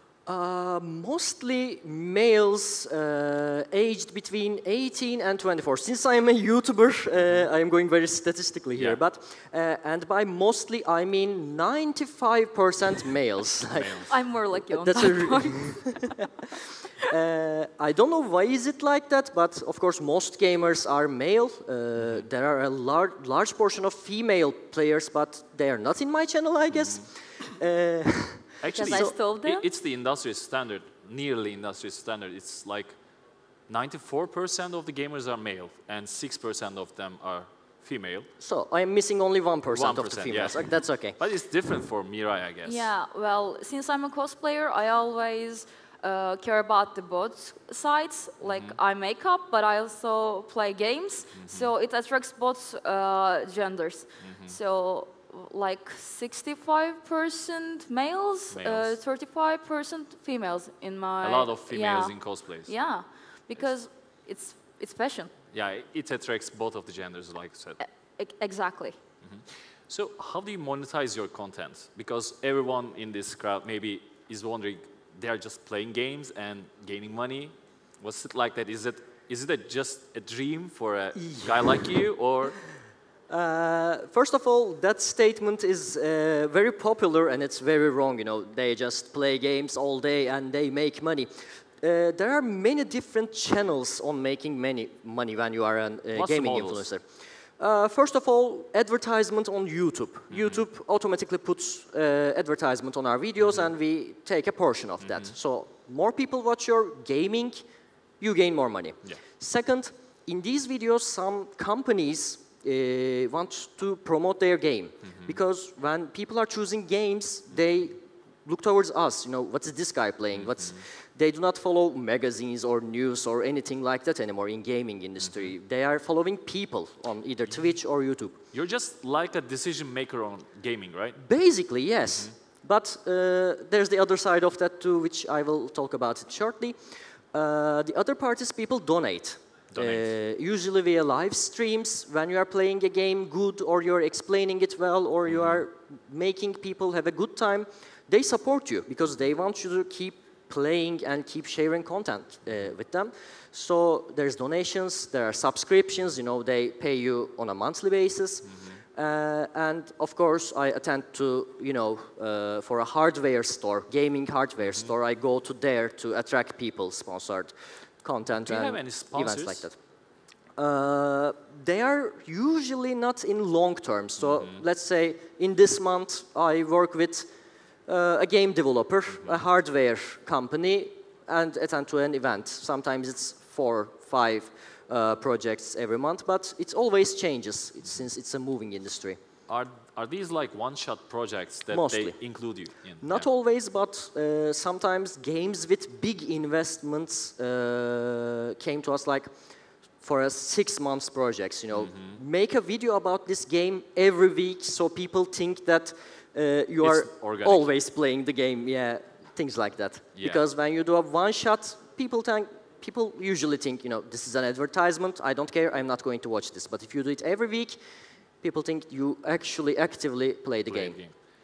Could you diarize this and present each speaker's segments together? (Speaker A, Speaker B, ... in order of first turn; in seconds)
Speaker A: 0.3-16.3, 17.1-29.1, 38.4-41.2, 81.2-81.7, 83.3-107.6, 108.2-128.4, 131.2-169.8, 170.6-177.3, 177.9-189.2, 191.7-192.2, 193.0-199.3, 200.0-217.8, 218.4-221.0
Speaker B: 13.8-14.1, 22.0-22.2, 26.7-27.0, 28.6-33.0, 33.7-38.3, 39.7-42.9, 48.5-48.8, 51.4-51.7, 54.2-54.6, 58.5-59.0, 61.2-62.7, 65.5-67.8, 69.2-82.6, 96.2-96.9, 100.3-100.6, 103.4-103.7, 105.0-105.3, 120.3-120.8, 128.5-131.2, 139.7-140.1, 145.3-145.6, 158.5-158.8, 168.3-169.7, 174.2-174.6, 189.5-193.3, 201.7-202.2, 206.8-207.7, 210.2-210.4, 220.7-221.1
Speaker C: 14.1-16.2, 28.8-29.6, 42.6-65.3, 67.8-69.0